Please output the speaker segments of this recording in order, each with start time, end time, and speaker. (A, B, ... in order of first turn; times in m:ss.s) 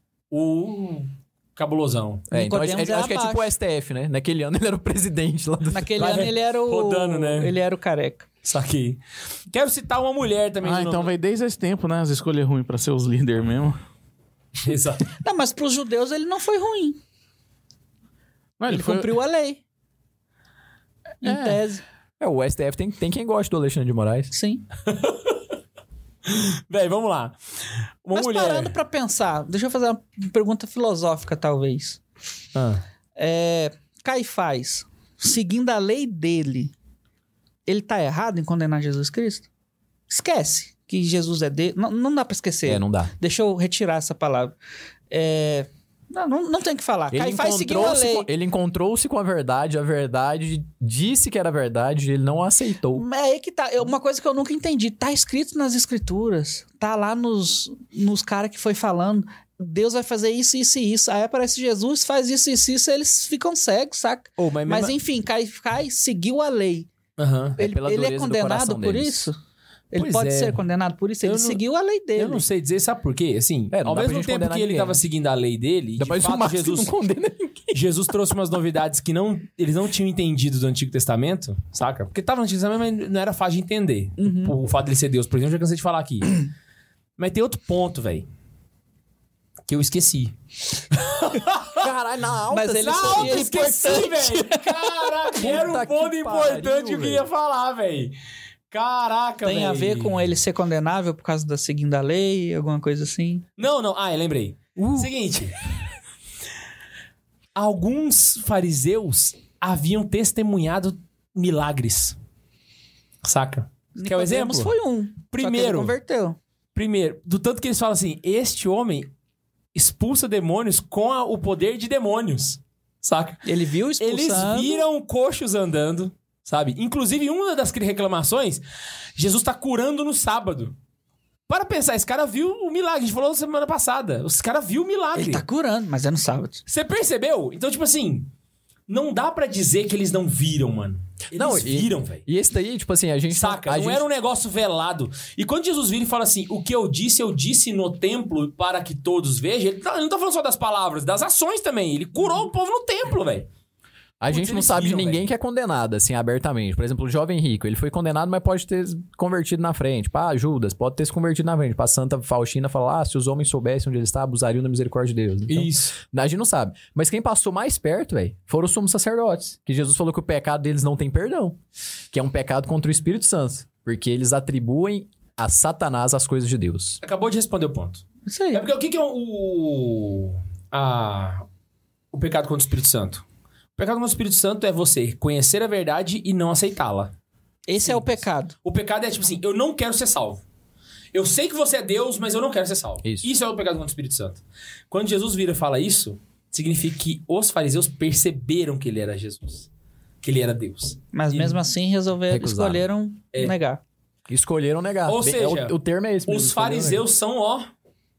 0:00.3-0:02.3 A
0:02.3-0:03.5 B
0:02.3-0:06.0 C
0:05.7-0:08.2 B
0:06.0-0:07.5 A
0:08.4-0:11.1 A
0:10.6-0:13.8 D
0:14.6-0:15.1 A
0:15.2-0:17.0 B
0:18.6-0:19.1 D
0:18.7-0:19.6 B
0:21.2-0:21.8 B
0:21.2-0:21.6 D
0:22.2-0:24.3 C
0:24.3-0:24.6 B
0:24.9-0:25.4 A
0:26.2-0:28.7 A
0:28.1-0:32.0 B
0:32.5-0:32.8 A
0:33.2-0:36.7 B
0:37.6-0:39.5 B
0:40.1-0:44.5 B
0:42.6-0:43.1 C
0:45.1-0:48.3 B
0:47.1-0:53.0 C
0:52.9-1:06.9 B
1:04.4-1:04.9 A
1:07.2-1:07.6 A
1:07.6-1:09.3 C
1:07.6-1:09.4 B
1:09.9-1:12.4 B
1:09.9-1:10.6 A
1:11.2-1:11.6 A
1:12.2-1:16.9 A
1:13.7-1:15.0 C
1:16.0-1:17.8 C
1:17.7-1:26.5 A
1:24.2-1:24.5 B
1:27.2-1:28.2 A
1:29.7-1:31.9 A
1:31.8-1:33.4 C
1:32.5-1:35.1 B
1:32.8-1:38.1 A
1:35.4-1:37.2 C
1:38.7-1:40.2 A
1:39.4-1:43.4 B
1:43.6-1:45.6 A
1:44.8-1:45.1 C
1:47.5-1:52.2 A
1:53.2-1:54.7 A
1:54.0-1:56.4 B
1:55.3-1:55.9 A
1:56.7-1:59.1 A
1:59.7-2:03.5 A
2:03.4-2:04.8 B
2:04.0-2:08.6 A
2:09.2-2:10.7 A
2:11.5-2:15.4 A
2:15.1-2:16.6 B
2:16.7-2:18.3 A
2:18.9-2:22.2 A
2:21.3-2:24.0 C
2:23.3-2:33.5 A
2:34.2-2:51.6 C
2:34.3-2:35.3 A
2:45.5-2:45.9 A
2:52.1-2:57.0 C
2:57.0-3:01.4 A
2:58.2-2:58.6 B
3:02.1-3:03.2 A
3:03.8-3:07.1 A
3:07.7-3:08.6 B
3:07.8-3:10.4 A
3:11.1-3:19.7 A
3:20.2-3:21.6 A
3:21.1-3:23.8 B
3:22.3-3:22.8 C
3:24.3-3:27.0 C
3:25.1-3:27.7 A